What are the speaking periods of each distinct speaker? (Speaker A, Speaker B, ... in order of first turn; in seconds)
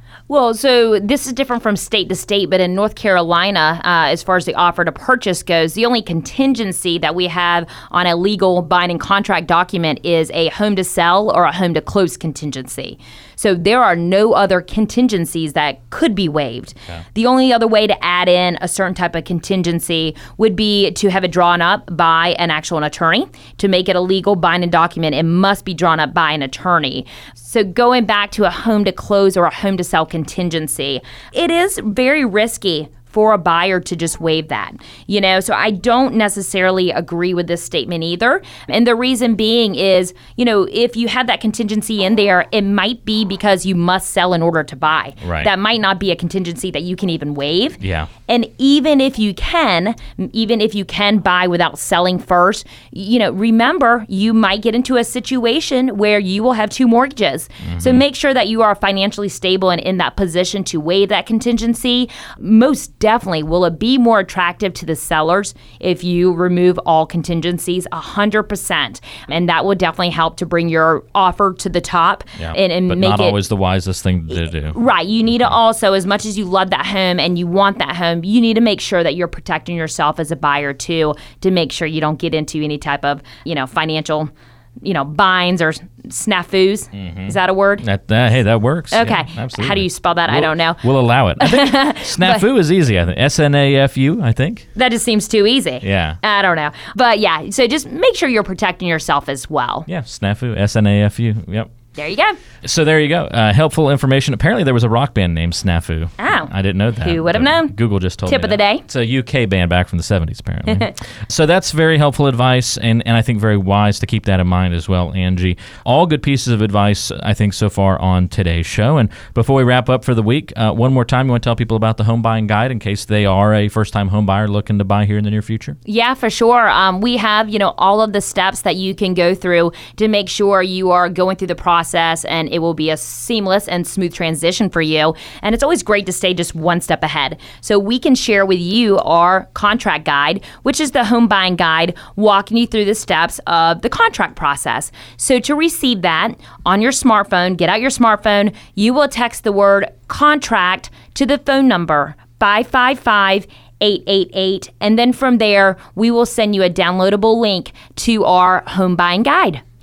Speaker A: 0.3-73.4, 74.3-84.3, 84.8-87.8, 88.9-90.8, 91.4-92.4, 94.8-99.9, 102.0-102.4, 106.2-107.7, 108.3-108.8, 125.9-159.6
Speaker B: 45.2-45.5, 47.8-48.1, 57.6-58.0, 72.4-75.5, 87.0-94.7, 95.8-96.2, 99.9-101.7, 102.6-125.8